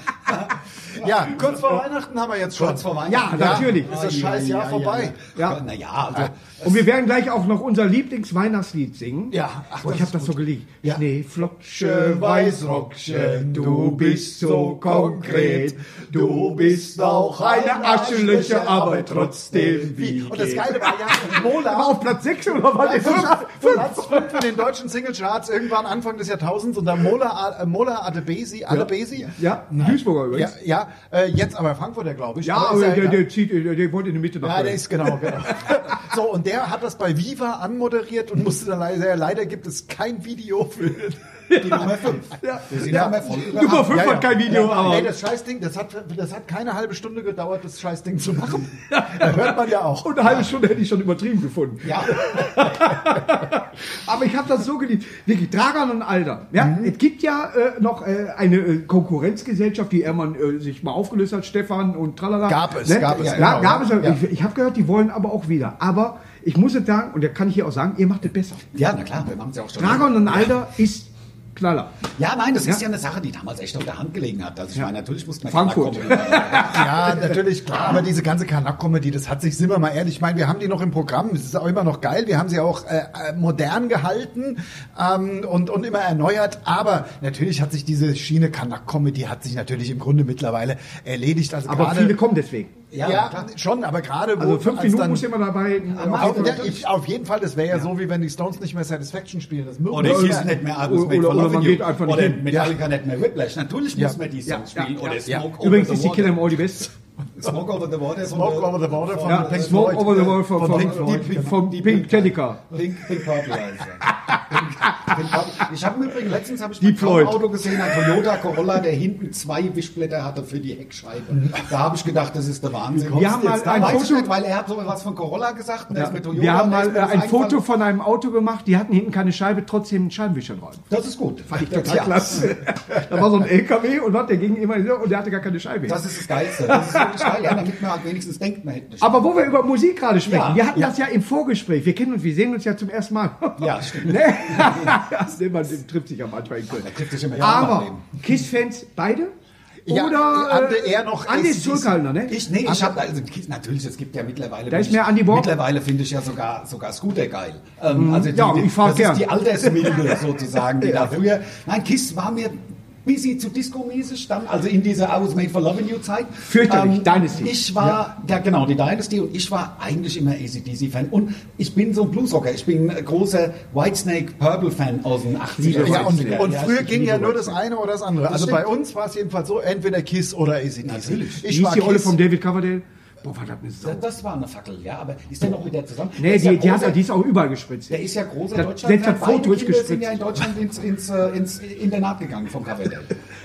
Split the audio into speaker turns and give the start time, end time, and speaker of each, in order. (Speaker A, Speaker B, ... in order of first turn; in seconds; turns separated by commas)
Speaker A: 0.3-1.8, Speaker B: 1.0-5.2, Speaker A: 2.5-6.7, Speaker C: 3.1-3.9, Speaker C: 6.6-24.4, Speaker B: 9.3-11.0, Speaker B: 11.7-19.3, Speaker A: 17.1-21.2, Speaker B: 19.9-22.1, Speaker B: 22.6-33.3, Speaker C: 28.7-30.5, Speaker C: 32.4-35.7, Speaker B: 34.4-41.2, Speaker C: 41.5-45.2, Speaker A: 41.6-44.6, Speaker B: 42.8-50.5, Speaker C: 48.9-68.6, Speaker A: 51.8-52.3, Speaker B: 56.6-56.9, Speaker B: 62.5-64.2, Speaker A: 63.1-63.7, Speaker A: 68.7-70.5, Speaker C: 69.8-72.0, Speaker A: 72.2-77.2, Speaker C: 75.5-77.2, Speaker B: 76.5-92.2, Speaker C: 91.7-92.7, Speaker A: 92.9-93.5, Speaker B: 93.0-95.3, Speaker C: 94.4-96.8, Speaker A: 95.9-96.8, Speaker B: 96.1-100.6, Speaker A: 99.9-106.6, Speaker C: 100.0-102.5, Speaker B: 102.5-102.8, Speaker C: 104.5-106.9, Speaker A: 107.4-127.6, Speaker B: 108.2-111.6, Speaker C: 109.3-112.6, Speaker C: 116.8-117.4, Speaker B: 123.0-124.1, Speaker C: 123.1-124.3, Speaker C: 126.0-130.8, Speaker A: 130.9-132.5, Speaker C: 131.5-137.6, Speaker A: 135.9-139.3, Speaker C: 139.0-149.3, Speaker A: 140.2-140.8, Speaker A: 143.6-145.0, Speaker A: 146.8-148.0, Speaker B: 149.9-152.0, Speaker C: 149.9-152.4, Speaker A: 152.3-177.6, Speaker B: 152.6-152.9, Speaker C: 154.7-155.5, Speaker C: 157.9-160.0, Speaker C: 166.4-167.6, Speaker C: 175.6-176.5, Speaker B: 175.7-182.2, Speaker A: 178.3-178.7, Speaker A: 180.8-181.4, Speaker C: 181.5-184.0, Speaker A: 183.8-187.0, Speaker C: 186.2-190.1, Speaker A: 187.9-193.2